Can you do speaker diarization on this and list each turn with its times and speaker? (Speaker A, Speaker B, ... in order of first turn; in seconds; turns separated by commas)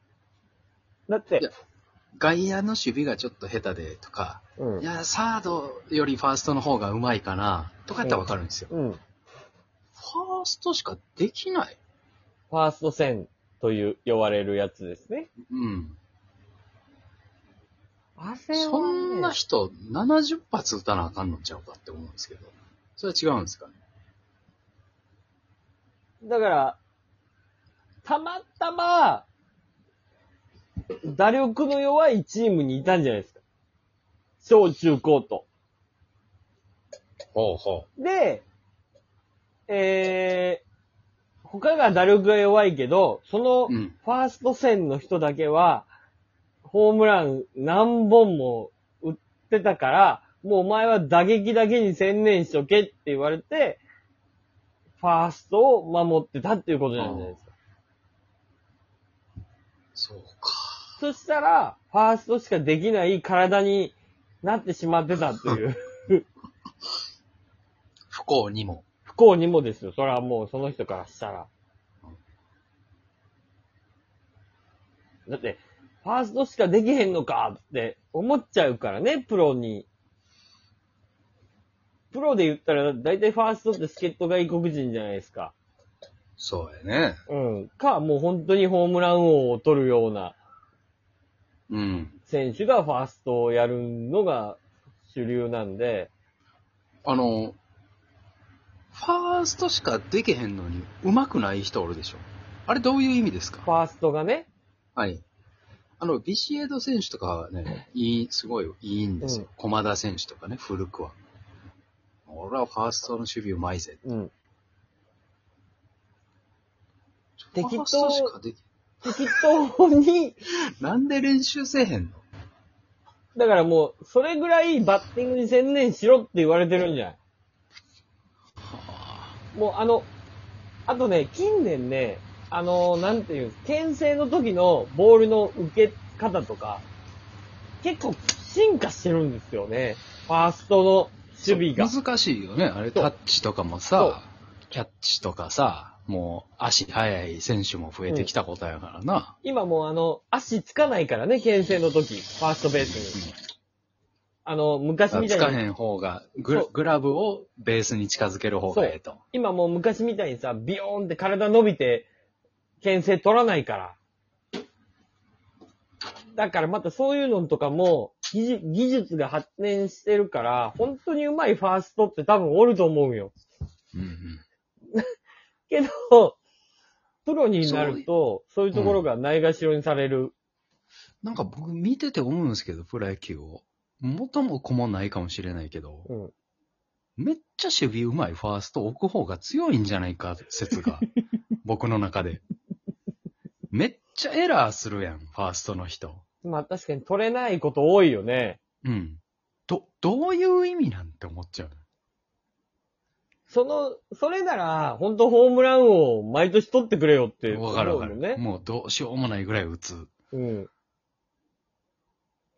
Speaker A: 1.1-1.5, Speaker B: 2.2-8.7, Speaker A: 4.6-4.8, Speaker A: 8.0-9.0, Speaker B: 10.0-11.8, Speaker A: 12.5-15.3, Speaker B: 15.5-16.0, Speaker A: 18.2-19.4, Speaker B: 18.5-23.8, Speaker A: 26.2-26.8, Speaker A: 28.1-29.3, Speaker A: 31.1-33.4, Speaker A: 34.4-35.5, Speaker B: 37.4-37.9, Speaker A: 38.0-38.5, Speaker A: 39.7-40.6, Speaker A: 41.5-45.9, Speaker B: 43.7-44.0, Speaker A: 46.6-53.8, Speaker A: 55.0-57.5, Speaker B: 57.0-57.4, Speaker B: 60.0-60.8, Speaker A: 61.0-66.3, Speaker B: 68.1-68.8, Speaker A: 69.1-71.5, Speaker A: 75.3-79.9, Speaker A: 82.1-85.5, Speaker B: 86.4-87.2, Speaker A: 87.3-90.4, Speaker B: 91.7-92.2, Speaker A: 92.3-96.1, Speaker B: 97.0-97.6, Speaker B: 98.9-103.7, Speaker A: 103.7-104.5, Speaker B: 105.0-105.2, Speaker B: 106.0-111.2, Speaker A: 109.2-109.5, Speaker B: 112.3-114.0, Speaker A: 114.0-114.3, Speaker B: 117.4-119.1, Speaker A: 117.5-118.3, Speaker A: 119.0-120.4, Speaker B: 120.8-122.2, Speaker A: 123.3-127.2, Speaker B: 128.6-129.4, Speaker A: 129.5-130.1, Speaker A: 130.9-136.8, Speaker A: 137.8-141.9, Speaker B: 141.5-149.3, Speaker A: 143.9-144.2, Speaker A: 149.4-153.2, Speaker A: 154.4-155.6, Speaker B: 155.1-159.2, Speaker A: 158.7-162.1, Speaker A: 162.8-164.0, Speaker A: 166.3-173.3, Speaker B: 173.9-174.4, Speaker A: 175.7-176.4, Speaker A: 177.3-180.3, Speaker B: 177.6-178.1, Speaker B: 178.7-179.0, Speaker B: 181.2-186.1, Speaker A: 186.1-186.3, Speaker B: 187.2-191.1, Speaker B: 191.6-192.4, Speaker B: 193.7-196.2, Speaker A: 196.4-198.6, Speaker B: 198.8-201.8, Speaker A: 203.5-208.4, Speaker B: 207.5-210.1, Speaker A: 210.3-210.7